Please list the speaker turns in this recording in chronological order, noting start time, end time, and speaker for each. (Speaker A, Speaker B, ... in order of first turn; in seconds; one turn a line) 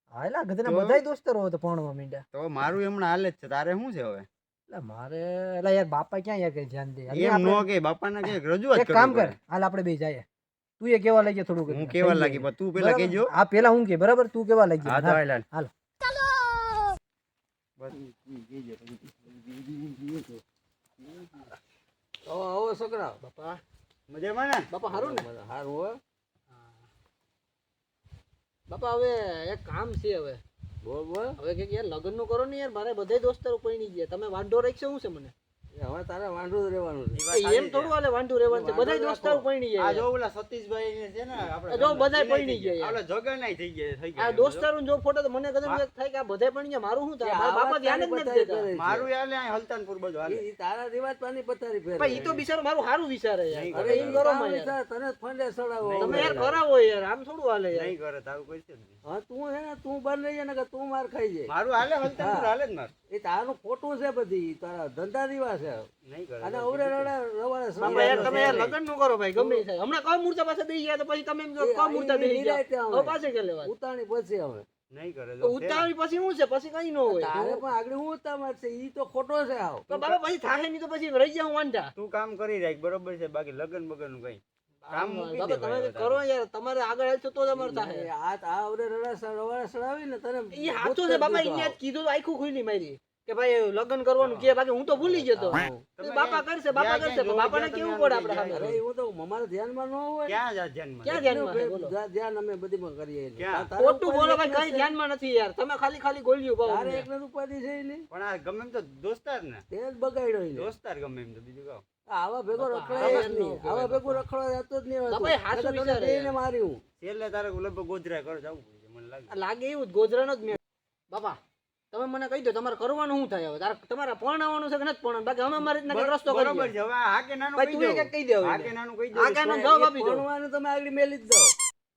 Speaker A: 0.1-2.2
Speaker B: 0.6-1.0
Speaker B: 2.3-4.3
Speaker A: 4.7-7.6
Speaker B: 7.1-9.3
Speaker A: 8.2-10.2
Speaker A: 10.8-15.7
Speaker B: 11.7-13.3
Speaker B: 14.8-15.4
Speaker C: 18.2-18.9
Speaker C: 19.7-20.3
Speaker C: 22.2-23.2
Speaker A: 23.2-23.6
Speaker B: 24.1-24.7
Speaker A: 24.7-25.3
Speaker C: 24.9-26.0
Speaker A: 28.7-30.4
Speaker C: 30.8-31.4
Speaker A: 31.4-35.3
Speaker C: 35.7-37.2
Speaker B: 37.1-37.9
Speaker A: 37.3-40.0
Speaker C: 38.4-39.5
Speaker B: 39.8-44.7
Speaker A: 41.7-43.0
Speaker A: 44.2-48.7
Speaker C: 47.2-49.1
Speaker B: 48.8-50.4
Speaker C: 50.2-52.2
Speaker A: 52.0-54.7
Speaker B: 52.1-52.4
Speaker B: 53.5-54.2
Speaker C: 53.7-56.6
Speaker B: 55.8-56.4
Speaker A: 56.0-57.9
Speaker B: 57.7-59.0
Speaker C: 59.0-61.5
Speaker B: 61.5-62.9
Speaker C: 62.0-62.5
Speaker C: 63.1-65.9
Speaker B: 66.0-67.1
Speaker C: 66.4-68.7
Speaker B: 67.8-68.7
Speaker A: 67.8-73.7
Speaker C: 69.3-69.6
Speaker C: 71.6-74.6
Speaker B: 74.9-75.9
Speaker A: 75.4-77.7
Speaker C: 77.1-79.9
Speaker A: 79.9-81.9
Speaker B: 81.9-84.4
Speaker A: 84.8-88.1
Speaker B: 84.9-86.2
Speaker C: 87.5-91.8
Speaker A: 90.5-98.8
Speaker B: 94.2-94.5
Speaker C: 94.9-95.8
Speaker B: 96.0-98.8
Speaker C: 98.5-100.3
Speaker B: 100.3-101.2
Speaker A: 101.0-101.9
Speaker C: 101.1-104.9
Speaker B: 103.4-103.7
Speaker A: 103.8-107.1
Speaker C: 106.7-108.0
Speaker B: 108.1-109.6
Speaker C: 109.7-110.7
Speaker B: 110.5-111.8
Speaker C: 112.1-116.8
Speaker A: 112.6-114.2
Speaker B: 113.0-113.2
Speaker A: 115.1-116.3
Speaker B: 117.0-119.3
Speaker A: 119.3-120.6
Speaker A: 121.1-121.4
Speaker A: 121.9-126.7
Speaker B: 125.6-129.7
Speaker A: 127.5-130.2
Speaker C: 129.4-131.5